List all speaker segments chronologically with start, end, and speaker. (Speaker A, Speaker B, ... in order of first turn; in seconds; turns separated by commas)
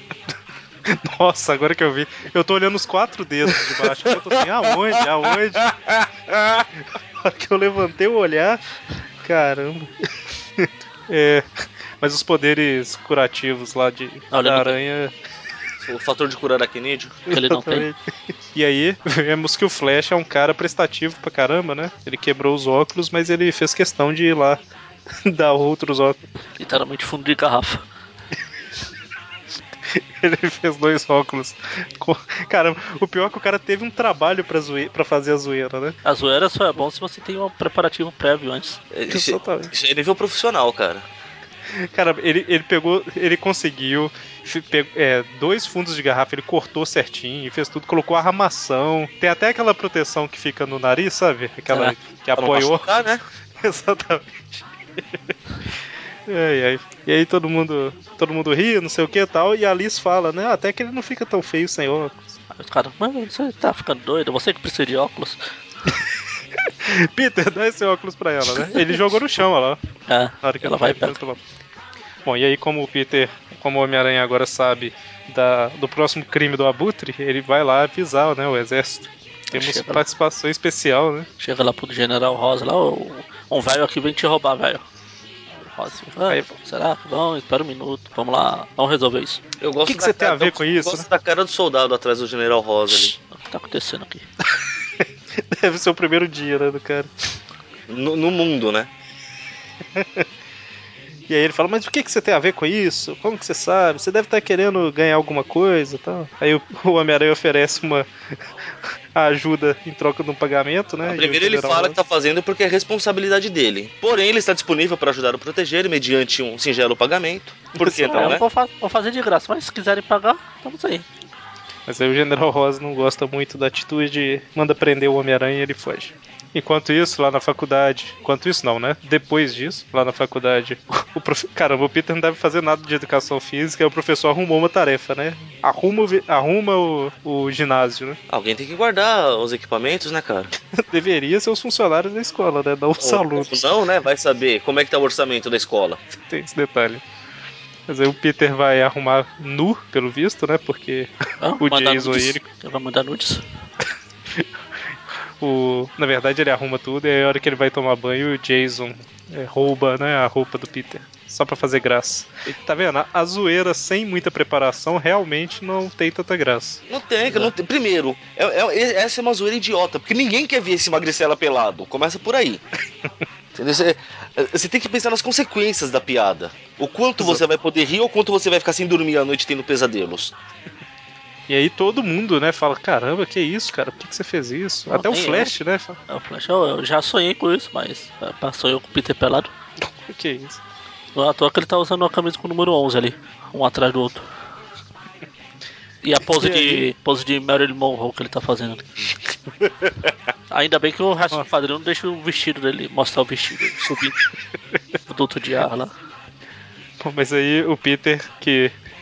Speaker A: 0.8-5.6, Speaker B: 6.3-6.6, Speaker A: 7.2-8.6, Speaker A: 9.2-9.9, Speaker A: 10.6-11.4, Speaker A: 12.0-15.1, Speaker C: 14.3-14.8, Speaker B: 15.8-17.2, Speaker A: 17.3-18.0, Speaker C: 17.3-17.9, Speaker A: 18.5-24.6, Speaker A: 25.2-26.2, Speaker C: 26.6-27.8, Speaker A: 29.9-36.0, Speaker C: 36.0-38.8, Speaker B: 38.9-41.0, Speaker A: 39.1-39.7, Speaker A: 41.7-53.0, Speaker C: 51.7-51.9, Speaker B: 52.4-53.2, Speaker A: 53.6-55.2, Speaker A: 56.3-62.2, Speaker C: 62.5-65.4, Speaker A: 66.7-69.8, Speaker C: 70.1-71.2, Speaker A: 70.4-71.4, Speaker A: 72.2-81.3, Speaker C: 79.5-80.0, Speaker C: 81.4-84.8, Speaker C: 85.5-89.4, Speaker A: 86.3-86.5, Speaker B: 89.6-93.1, Speaker A: 89.8-91.0, Speaker C: 92.9-94.2, Speaker A: 95.0-97.1, Speaker B: 97.9-98.9, Speaker A: 99.9-100.2, Speaker A: 101.3-108.1, Speaker A: 109.1-112.0, Speaker B: 111.0-118.4, Speaker A: 117.8-118.4, Speaker C: 118.1-121.0, Speaker A: 121.9-138.2, Speaker B: 138.3-140.5, Speaker A: 140.8-143.5, Speaker B: 143.0-146.0, Speaker A: 146.1-147.0, Speaker A: 147.9-152.4, Speaker C: 151.4-153.4, Speaker A: 155.4-166.8, Speaker B: 166.9-172.6, Speaker B: 173.6-180.3, Speaker A: 181.5-186.0, Speaker C: 184.9-185.5, Speaker C: 186.1-189.5, Speaker A: 190.0-190.6, Speaker C: 191.1-194.2, Speaker C: 196.0-199.1, Speaker A: 196.3-196.8, Speaker C: 200.5-204.1, Speaker C: 205.1-205.9, Speaker A: 207.0-208.7